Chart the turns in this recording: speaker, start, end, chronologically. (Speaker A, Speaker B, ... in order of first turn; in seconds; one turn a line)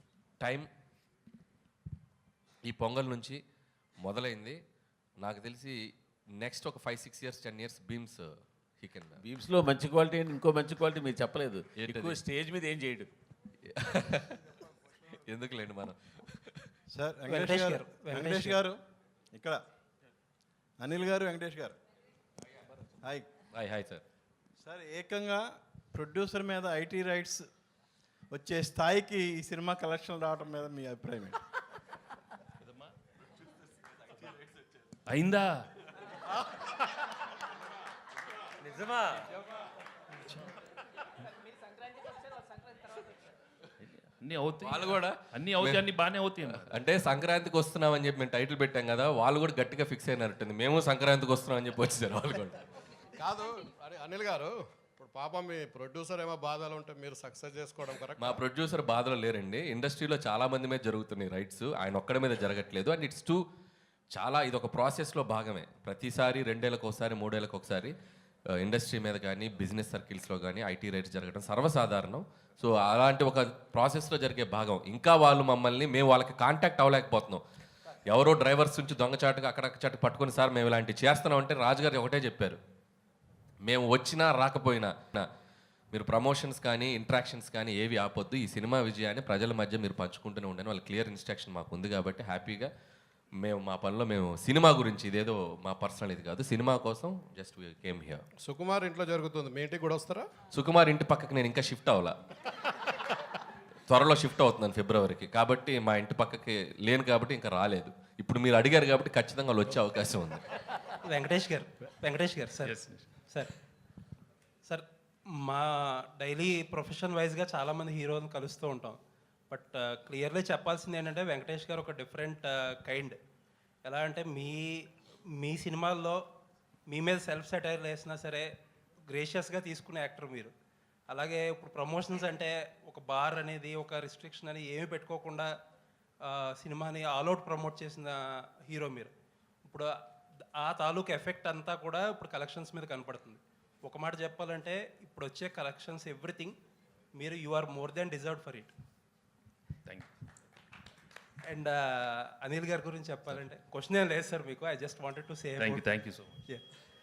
Speaker A: 0.4-0.7
Speaker A: 2.6-3.4
Speaker A: 4.0-4.6
Speaker A: 5.2-5.8
Speaker A: 6.3-8.3
Speaker A: 8.8-9.3
Speaker B: 9.2-13.1
Speaker A: 11.7-12.2
Speaker A: 13.7-14.4
Speaker A: 15.3-16.7
Speaker C: 16.9-18.8
Speaker D: 17.2-18.6
Speaker C: 19.3-19.6
Speaker C: 20.8-21.8
Speaker C: 23.0-23.3
Speaker A: 23.5-24.0
Speaker C: 24.6-27.5
Speaker C: 28.3-31.4
Speaker E: 32.6-32.9
Speaker E: 35.1-35.7
Speaker E: 43.8-46.9
Speaker A: 44.6-45.8
Speaker A: 46.6-52.6
Speaker F: 53.2-58.4
Speaker A: 58.2-63.4
Speaker A: 64.1-68.0
Speaker A: 68.5-77.4
Speaker A: 78.1-82.6
Speaker A: 83.6-85.3
Speaker A: 85.9-92.7
Speaker A: 93.4-98.2
Speaker F: 98.4-100.3
Speaker A: 100.5-102.2
Speaker A: 103.9-110.4
Speaker D: 111.0-112.8
Speaker E: 112.6-113.1
Speaker D: 114.6-123.2
Speaker D: 123.8-126.2
Speaker D: 126.9-128.5
Speaker D: 129.1-130.5
Speaker D: 131.1-135.5
Speaker D: 136.2-139.1
Speaker D: 139.6-139.9
Speaker D: 140.5-146.6
Speaker D: 147.1-148.7
Speaker D: 151.4-155.8
Speaker E: 155.6-156.4